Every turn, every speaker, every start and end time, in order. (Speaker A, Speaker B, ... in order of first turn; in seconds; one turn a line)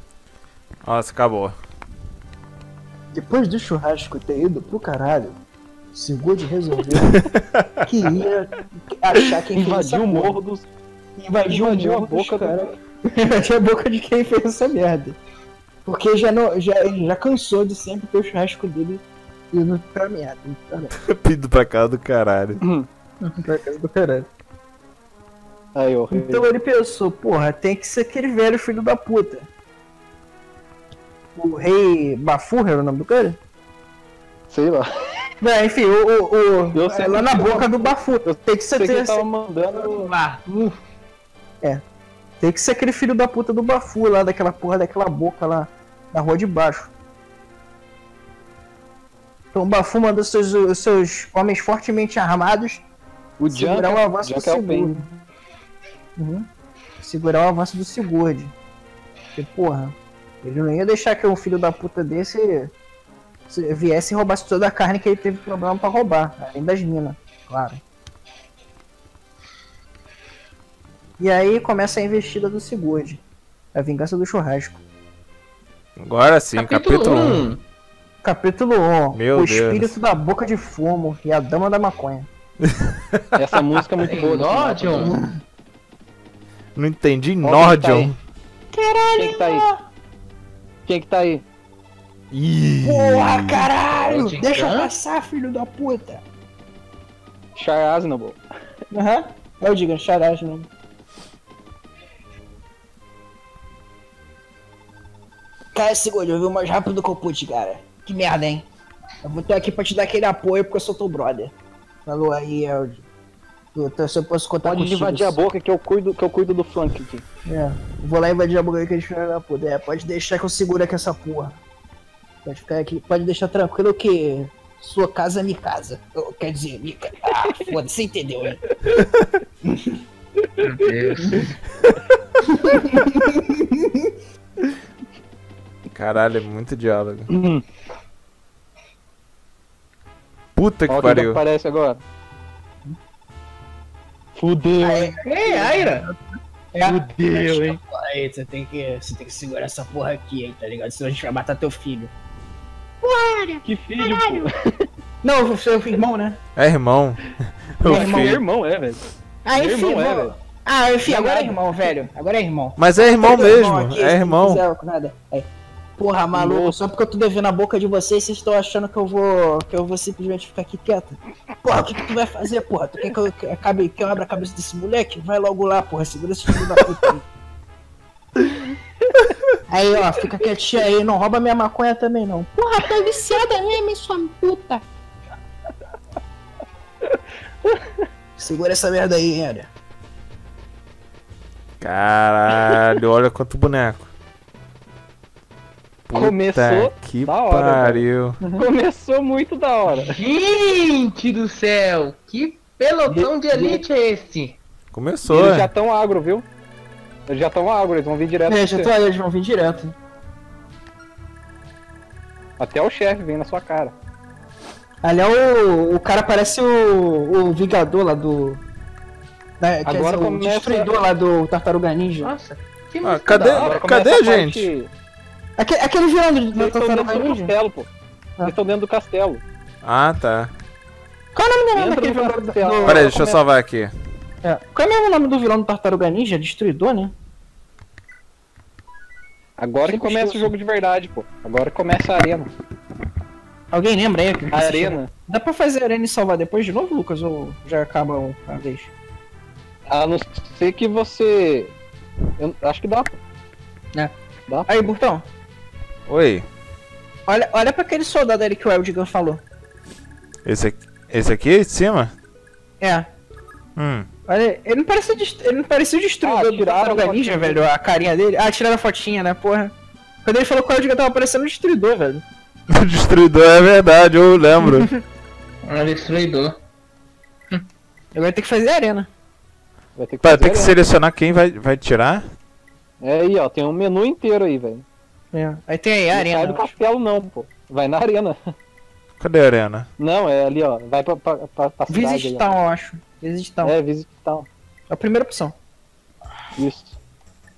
Speaker A: 0.8-1.6
Speaker B: 3.1-5.4
Speaker B: 5.9-7.2
Speaker A: 7.0-7.8
Speaker B: 7.8-10.4
Speaker C: 9.5-10.7
Speaker B: 11.2-15.2
Speaker C: 11.5-12.6
Speaker B: 15.8-20.9
Speaker A: 20.9-22.6
Speaker C: 22.6-22.9
Speaker B: 23.4-24.3
Speaker C: 25.7-26.5
Speaker B: 26.1-29.5
Speaker B: 31.4-33.4
Speaker C: 34.5-34.9
Speaker B: 35.4-39.2
Speaker C: 36.7-40.1
Speaker D: 39.7-40.8
Speaker B: 42.4-46.9
Speaker B: 49.5-52.8
Speaker C: 53.4-55.2
Speaker B: 53.5-55.1
Speaker B: 56.2-56.5
Speaker B: 57.0-58.5
Speaker B: 59.3-62.7
Speaker B: 63.5-67.8
Speaker B: 71.2-73.2
Speaker B: 73.7-74.8
Speaker A: 76.0-77.5
Speaker D: 76.5-77.6
Speaker B: 78.2-82.3
Speaker A: 79.1-80.0
Speaker A: 82.6-83.3
Speaker C: 83.3-85.2
Speaker D: 84.0-85.2
Speaker B: 85.0-85.4
Speaker A: 86.8-88.2
Speaker C: 87.4-88.1
Speaker B: 88.7-89.8
Speaker C: 89.1-89.7
Speaker C: 90.8-91.4
Speaker A: 92.3-93.7
Speaker B: 92.8-96.2
Speaker D: 94.1-94.9
Speaker C: 97.5-98.4
Speaker B: 98.9-100.7
Speaker B: 105.7-108.7
Speaker B: 109.2-111.5
Speaker B: 112.0-113.0
Speaker B: 113.7-115.4
Speaker C: 114.6-117.2
Speaker B: 117.5-121.6
Speaker B: 122.4-128.6
Speaker C: 127.4-127.7
Speaker B: 129.6-130.0
Speaker D: 130.6-131.6
Speaker B: 132.5-134.1
Speaker A: 135.9-137.3
Speaker C: 137.3-137.6
Speaker A: 140.6-141.4
Speaker C: 140.9-142.0
Speaker C: 144.3-145.1
Speaker B: 144.8-146.2
Speaker D: 145.2-146.1
Speaker B: 146.7-152.1
Speaker C: 146.8-147.8
Speaker B: 153.0-154.5
Speaker C: 153.6-154.9
Speaker B: 155.2-156.4
Speaker A: 156.6-158.4
Speaker C: 157.8-159.0
Speaker B: 157.8-158.4
Speaker B: 159.4-177.2
Speaker C: 159.5-160.3
Speaker C: 161.0-161.6
Speaker A: 162.8-164.6
Speaker C: 166.3-166.8
Speaker C: 179.0-179.3
Speaker B: 179.7-184.8
Speaker C: 187.1-188.0
Speaker B: 188.4-189.7
Speaker A: 191.8-194.1
Speaker A: 196.1-198.4
Speaker C: 196.1-200.2
Speaker D: 199.9-204.6
Speaker C: 203.1-203.8
Speaker A: 204.9-205.7
Speaker C: 205.2-206.4
Speaker C: 207.3-208.9
Speaker B: 208.5-209.9
Speaker C: 212.6-213.9
Speaker B: 215.0-218.6
Speaker B: 219.6-222.3
Speaker C: 219.8-220.9
Speaker D: 222.2-223.8
Speaker A: 223.0-224.7
Speaker C: 223.5-224.9
Speaker B: 225.6-227.5
Speaker C: 226.5-227.9
Speaker C: 228.4-229.4
Speaker A: 229.8-230.5
Speaker B: 231.3-233.1
Speaker C: 231.7-233.4
Speaker A: 232.8-233.9
Speaker B: 234.4-237.1
Speaker C: 239.6-242.5
Speaker B: 239.9-240.5
Speaker B: 243.7-248.9
Speaker C: 244.5-245.1
Speaker C: 249.9-251.7
Speaker C: 252.4-253.1
Speaker B: 254.7-255.2
Speaker A: 256.1-256.4
Speaker B: 257.3-259.4
Speaker A: 260.4-262.1
Speaker B: 262.8-263.1
Speaker A: 263.8-264.1
Speaker B: 264.2-272.2
Speaker C: 266.2-267.6
Speaker A: 272.7-274.9
Speaker B: 274.6-275.0
Speaker D: 275.6-276.6
Speaker B: 278.1-279.1
Speaker C: 279.9-280.8
Speaker A: 280.2-282.3
Speaker C: 283.0-284.8
Speaker B: 285.3-286.7
Speaker C: 286.1-288.4
Speaker A: 289.2-289.9
Speaker C: 290.0-292.6
Speaker B: 291.9-293.7
Speaker C: 293.6-294.5
Speaker B: 294.9-295.5
Speaker C: 296.6-297.0